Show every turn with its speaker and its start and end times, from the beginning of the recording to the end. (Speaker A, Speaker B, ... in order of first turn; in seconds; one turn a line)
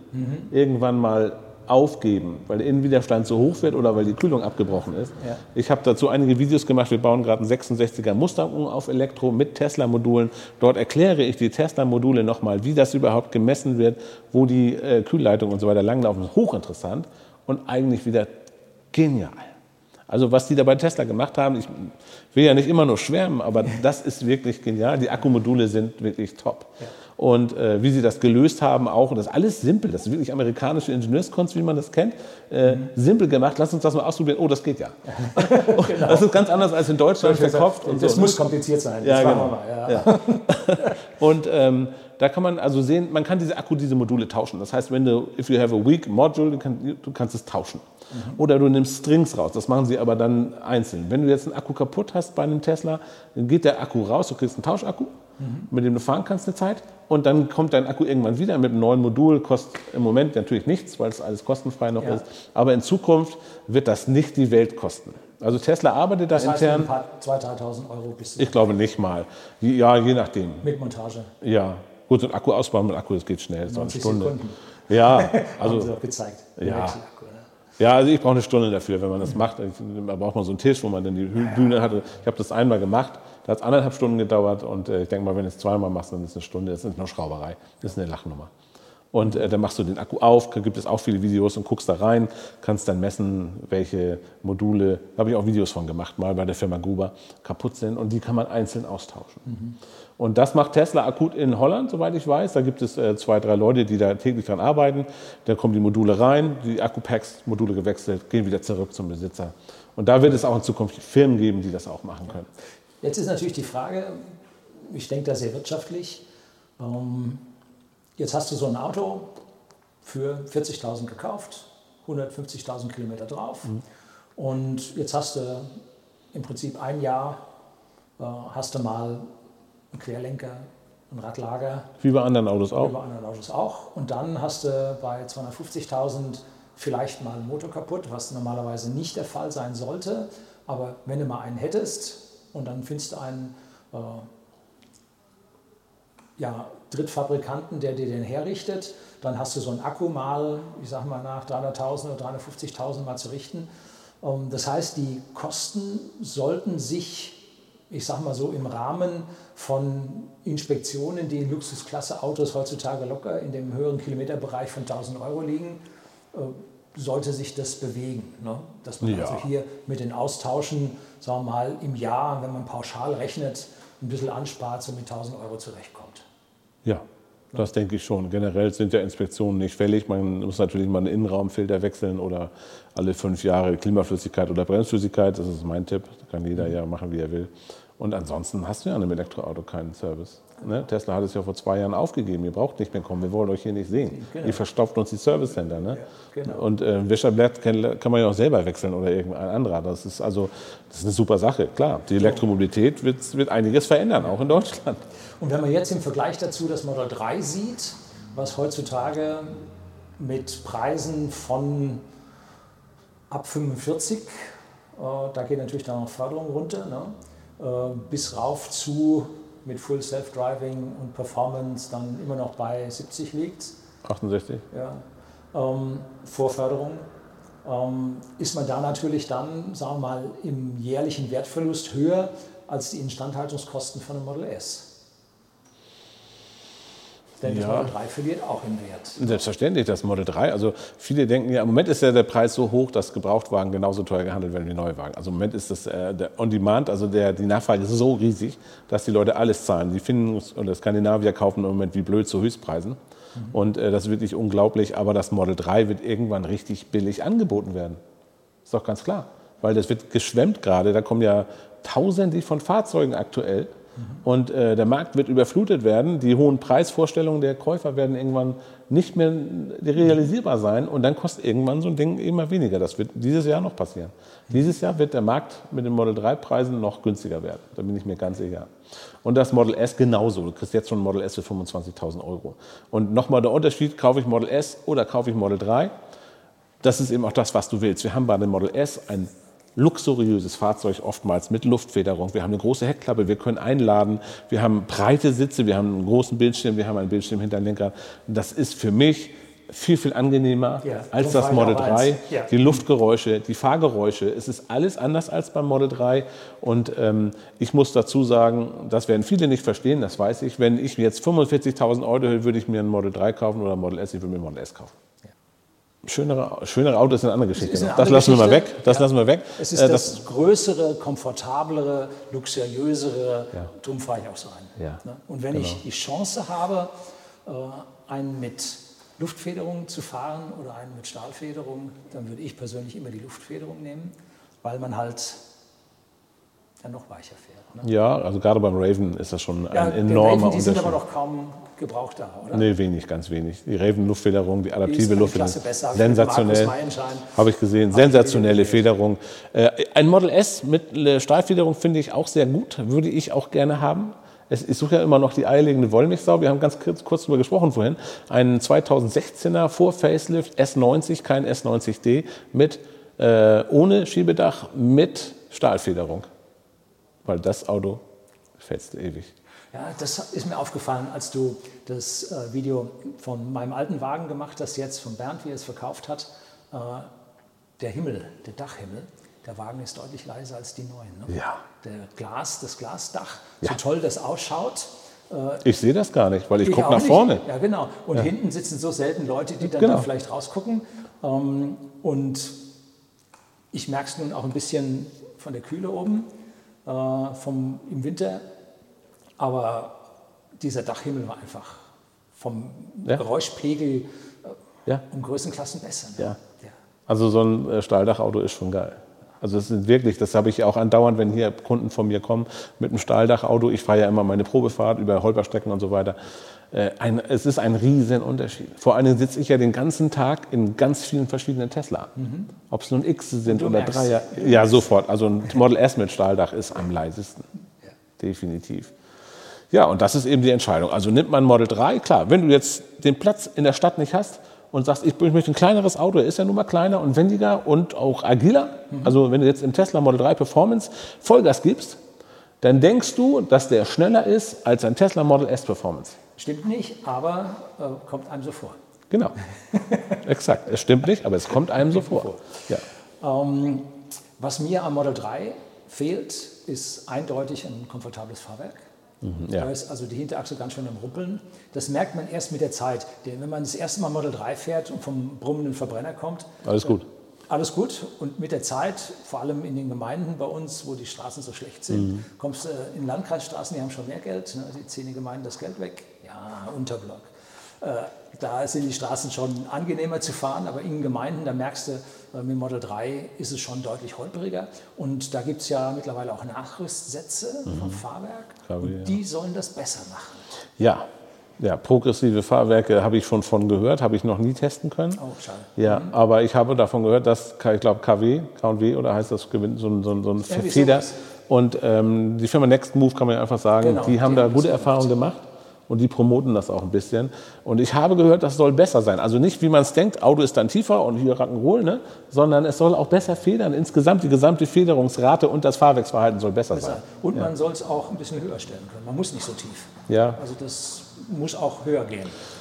Speaker A: 0.1-0.5
Speaker B: 0.5-19.5
Speaker B: 20.1-38.5
Speaker A: 35.1-36.4
Speaker A: 37.2-41.0
Speaker B: 39.0-55.2
Speaker A: 48.1-48.4
Speaker A: 55.4-55.7
Speaker B: 55.7-66.9
Speaker A: 66.3-68.7
Speaker B: 68.4-70.7
Speaker A: 70.6-71.3
Speaker B: 71.4-74.4
Speaker A: 73.7-77.5
Speaker B: 74.9-75.9
Speaker B: 76.6-77.0
Speaker B: 77.8-88.5
Speaker B: 89.1-99.5
Speaker A: 99.5-99.8
Speaker B: 100.2-112.5
Speaker A: 113.0-116.2
Speaker A: 116.8-117.5
Speaker A: 118.2-119.4
Speaker A: 120.0-123.8
Speaker A: 124.4-125.8
Speaker A: 126.3-127.4
Speaker A: 128.2-129.3
Speaker A: 129.9-131.9
Speaker B: 132.0-132.9
Speaker A: 132.7-144.3
Speaker A: 146.4-153.7
Speaker A: 154.2-165.8
Speaker A: 166.3-176.3
Speaker B: 169.0-169.5
Speaker B: 176.8-205.0
Speaker A: 194.1-194.6
Speaker A: 195.9-196.7
Speaker A: 205.4-209.6
Speaker A: 210.2-212.0
Speaker A: 213.3-223.8
Speaker B: 224.0-224.7
Speaker A: 224.7-227.1
Speaker A: 227.6-234.9
Speaker A: 237.4-239.4
Speaker B: 237.5-237.9
Speaker B: 239.2-253.0
Speaker B: 253.5-258.0
Speaker B: 258.7-263.7
Speaker A: 264.0-264.2
Speaker B: 264.2-278.7
Speaker B: 279.2-285.9
Speaker B: 286.8-314.9
Speaker A: 300.8-302.8
Speaker B: 316.1-320.2
Speaker A: 317.6-326.9
Speaker B: 325.5-325.8
Speaker A: 327.4-335.4
Speaker A: 336.8-337.9
Speaker B: 337.8-341.0
Speaker A: 339.7-342.7
Speaker B: 342.5-346.8
Speaker A: 344.9-348.9
Speaker B: 347.4-366.3
Speaker B: 367.2-368.0
Speaker B: 368.6-369.3
Speaker A: 369.7-377.1
Speaker A: 377.8-385.7
Speaker B: 381.3-381.6
Speaker B: 385.6-387.4
Speaker A: 386.6-392.6
Speaker B: 389.6-390.1
Speaker A: 393.7-396.3
Speaker A: 396.9-398.4
Speaker A: 399.4-400.0
Speaker A: 400.6-406.7
Speaker B: 407.1-422.1
Speaker A: 422.2-422.5
Speaker B: 422.7-427.5
Speaker A: 423.4-424.9
Speaker B: 428.2-428.9
Speaker B: 429.7-442.0
Speaker A: 438.9-439.2
Speaker B: 442.6-446.2
Speaker A: 446.4-448.8
Speaker B: 449.1-449.4
Speaker A: 449.5-450.2
Speaker B: 450.2-452.8
Speaker A: 451.8-452.7
Speaker A: 453.2-458.9
Speaker B: 459.2-459.7
Speaker A: 459.6-490.5
Speaker B: 466.6-467.1
Speaker B: 471.9-472.2
Speaker B: 487.7-488.0
Speaker B: 488.7-489.1
Speaker B: 490.8-491.1
Speaker B: 491.6-495.2
Speaker A: 495.2-496.1
Speaker B: 495.8-517.5
Speaker A: 500.4-501.2
Speaker A: 503.8-505.3
Speaker A: 516.7-522.4
Speaker B: 520.1-520.4